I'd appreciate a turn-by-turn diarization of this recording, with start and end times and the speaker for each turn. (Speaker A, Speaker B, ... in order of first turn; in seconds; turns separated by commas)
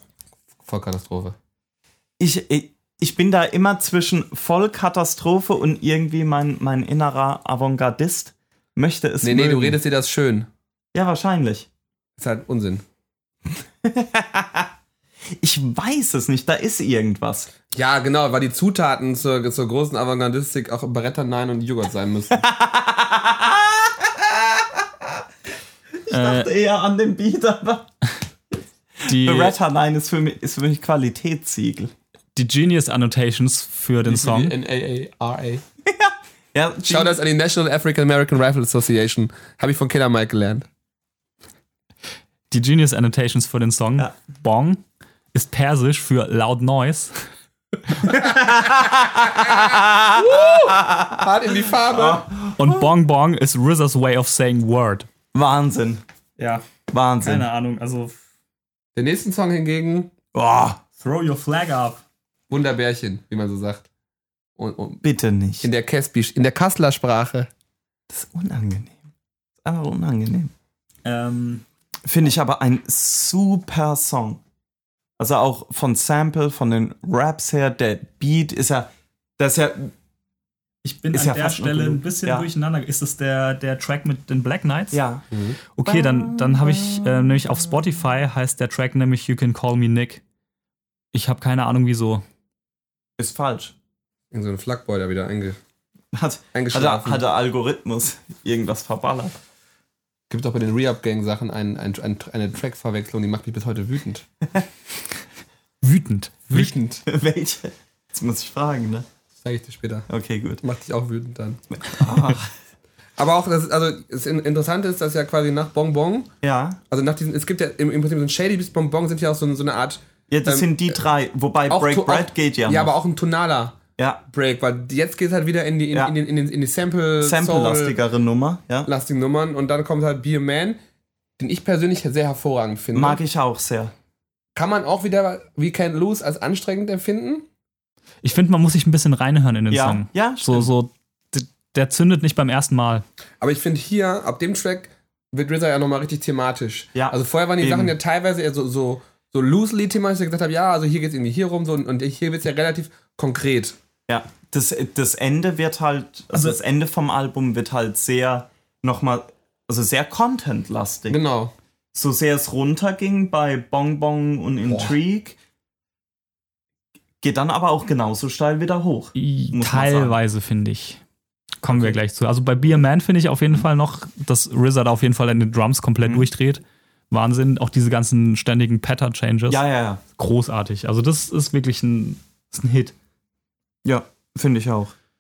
Speaker A: 0.7-1.4, Speaker B: 2.2-9.8, Speaker A: 9.2-10.5, Speaker B: 10.9-11.7, Speaker A: 12.2-12.8, Speaker B: 13.8-14.7, Speaker B: 15.4-17.5, Speaker A: 17.7-22.4, Speaker B: 22.3-25.2, Speaker B: 26.0-27.9, Speaker C: 26.1-26.5, Speaker B: 29.0-31.9, Speaker C: 29.1-29.6, Speaker C: 32.4-34.5, Speaker A: 34.0-35.6, Speaker B: 35.9-37.2, Speaker A: 36.9-40.7, Speaker C: 42.5-44.8, Speaker C: 45.3-47.3, Speaker B: 48.0-51.3, Speaker A: 49.2-52.3, Speaker B: 51.9-52.9, Speaker C: 52.6-55.1, Speaker B: 55.3-56.0, Speaker C: 56.4-56.6, Speaker B: 56.9-57.5, Speaker C: 57.2-58.2, Speaker A: 59.0-60.1, Speaker B: 60.3-60.8, Speaker C: 61.0-62.0, Speaker A: 62.5-63.9, Speaker A: 64.6-65.0, Speaker B: 65.0-65.7, Speaker A: 65.6-67.5, Speaker B: 68.1-69.0, Speaker B: 69.6-70.5, Speaker C: 71.0-71.7, Speaker B: 72.0-74.4, Speaker B: 75.2-79.9, Speaker C: 80.8-85.0, Speaker B: 81.1-82.5, Speaker B: 84.9-85.2, Speaker A: 85.3-85.6, Speaker C: 85.8-90.2, Speaker B: 85.8-87.8, Speaker C: 91.1-92.2, Speaker B: 93.2-93.7, Speaker A: 94.3-95.6, Speaker B: 96.1-99.4, Speaker A: 96.5-97.2, Speaker A: 100.3-104.3, Speaker C: 105.8-106.7, Speaker A: 106.5-107.0, Speaker B: 107.1-109.1, Speaker A: 109.4-110.1, Speaker B: 110.1-110.6, Speaker A: 110.6-111.8, Speaker B: 111.8-112.5, Speaker A: 113.2-116.3, Speaker B: 116.4-116.8, Speaker A: 116.9-120.8, Speaker B: 120.3-122.9, Speaker A: 121.7-128.0, Speaker B: 124.0-124.2, Speaker B: 127.2-128.9, Speaker A: 128.8-130.8, Speaker A: 131.4-133.2, Speaker B: 132.9-133.9, Speaker A: 134.6-137.4, Speaker C: 138.2-143.0, Speaker B: 139.7-140.7, Speaker A: 143.4-153.8, Speaker B: 146.9-148.0, Speaker B: 154.1-161.2, Speaker C: 156.3-156.6, Speaker A: 161.1-161.5, Speaker B: 161.9-165.4, Speaker A: 164.7-164.9, Speaker B: 167.2-170.2, Speaker C: 169.2-171.0, Speaker C: 171.6-179.6, Speaker B: 171.7-172.0, Speaker B: 179.5-180.0, Speaker C: 180.2-182.9, Speaker B: 183.8-184.9